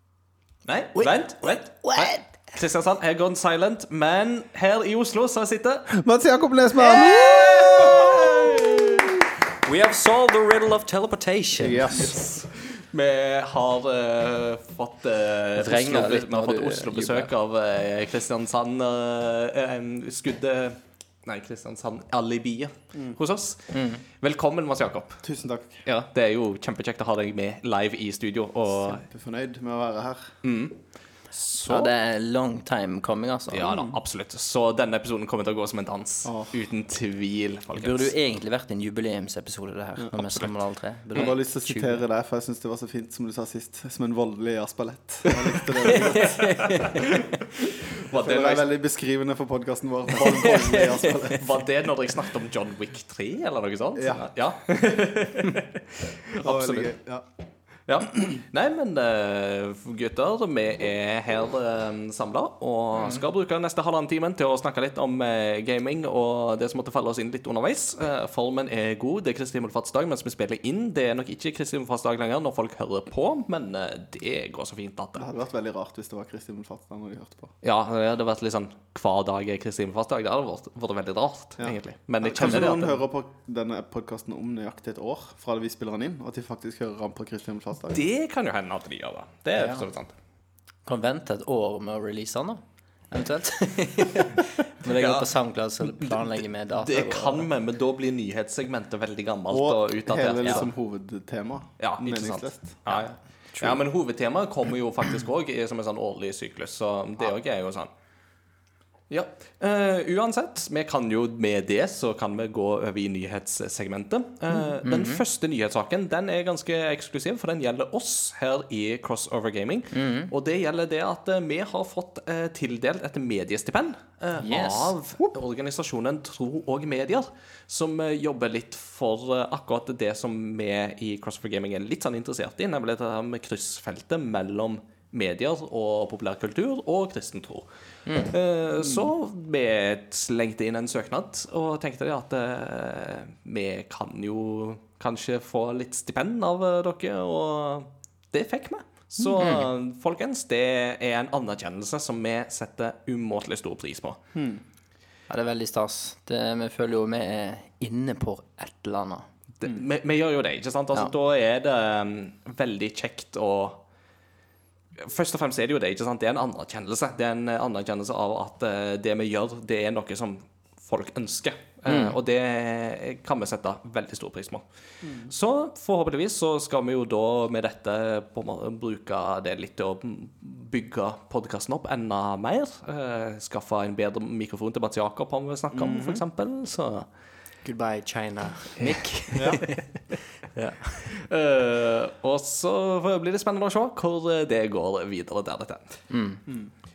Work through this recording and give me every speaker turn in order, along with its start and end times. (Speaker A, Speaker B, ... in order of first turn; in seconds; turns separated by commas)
Speaker A: 0.7-5.9, Speaker B: 0.9-2.5, Speaker C: 5.9-8.8, Speaker B: 6.8-9.1, Speaker A: 7.6-9.0, Speaker B: 9.6-12.2, Speaker C: 11.6-12.2, Speaker A: 12.0-25.2, Speaker B: 15.6-17.3, Speaker B: 23.7-24.0, Speaker C: 25.2-25.8, Speaker A: 25.8-29.1, Speaker C: 28.7-30.3, Speaker A: 30.4-31.9, Speaker B: 31.6-33.9, Speaker A: 33.5-38.1, Speaker C: 33.7-34.0, Speaker C: 36.2-36.5, Speaker B: 37.7-42.0, Speaker C: 41.1-46.5, Speaker A: 45.8-48.7, Speaker B: 45.8-47.1, Speaker C: 48.1-51.5, Speaker A: 50.2-56.9, Speaker B: 50.2-51.4, Speaker C: 53.9-54.3, Speaker C: 56.4-57.2, Speaker A: 57.9-75.2, Speaker C: 75.2-77.5, Speaker A: 77.6-83.0, Speaker C: 81.6-88.0, Speaker A: 87.9-90.1, Speaker B: 89.5-89.9, Speaker B: 90.8-97.5, Speaker A: 94.8-100.7, Speaker C: 99.5-102.8, Speaker A: 101.8-107.9, Speaker A: 109.1-154.2, Speaker B: 114.8-115.2, Speaker B: 119.9-120.3, Speaker B: 124.4-124.9, Speaker B: 138.1-138.3, Speaker C: 138.8-139.1, Speaker B: 149.3-149.7, Speaker C: 154.3-154.6, Speaker B: 155.3-159.3, Speaker A: 159.6-163.8, Speaker A: 165.0-187.1, Speaker B: 171.9-172.1, Speaker C: 175.0-175.3, Speaker C: 185.7-186.2, Speaker B: 187.6-190.0, Speaker A: 188.8-189.0, Speaker C: 189.3-189.7, Speaker B: 190.5-191.2, Speaker A: 191.1-196.0, Speaker B: 196.1-196.4